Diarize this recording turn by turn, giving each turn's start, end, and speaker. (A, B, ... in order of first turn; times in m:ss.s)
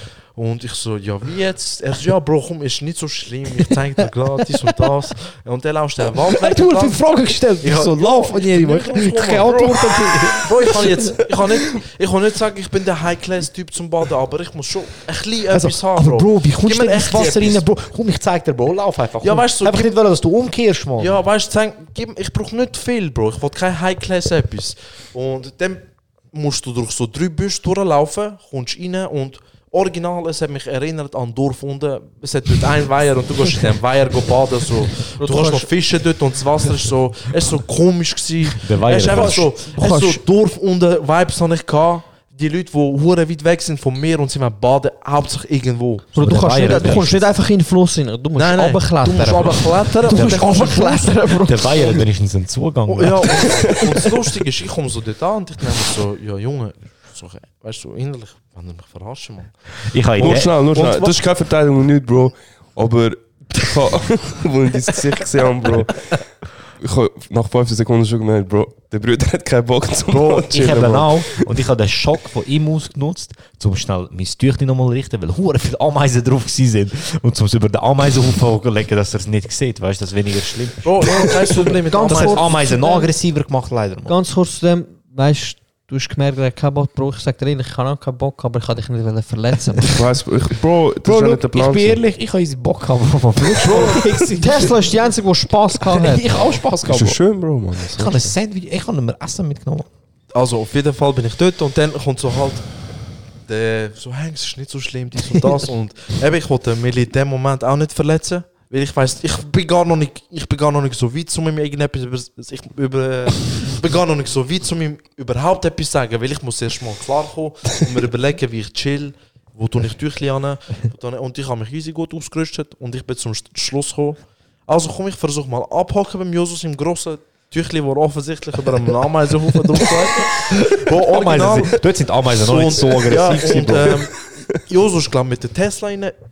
0:00.4-0:07.0 A
0:06.2-0:11.7 B
0:07.6-0:17.6 A
0:15.5-0:21.2 B
0:19.2-0:19.9 A
0:21.0-0:47.2 A
0:35.2-0:35.7 C
0:38.6-0:40.0 B
0:46.2-0:52.0 C
0:46.2-0:47.3 B
0:48.4-0:51.1 A
0:49.0-0:54.2 B
0:52.9-0:59.6 A
0:59.9-1:00.7 B
1:00.2-1:01.2 A
1:00.2-1:06.2 D
1:06.8-1:11.4 D
1:10.1-1:24.2 B
1:20.8-1:22.5 A
1:21.6-1:23.1 C
1:24.1-1:30.0 C
1:29.8-1:32.0 D
1:31.0-1:34.9 B
1:33.7-1:36.6 C
1:33.7-1:34.0 A
1:35.8-1:37.2 B
1:36.8-1:38.3 D
1:37.8-1:39.9 B
1:40.3-1:42.7 A
1:43.5-2:11.8 A
2:10.4-2:14.0 B
2:12.4-2:16.2 A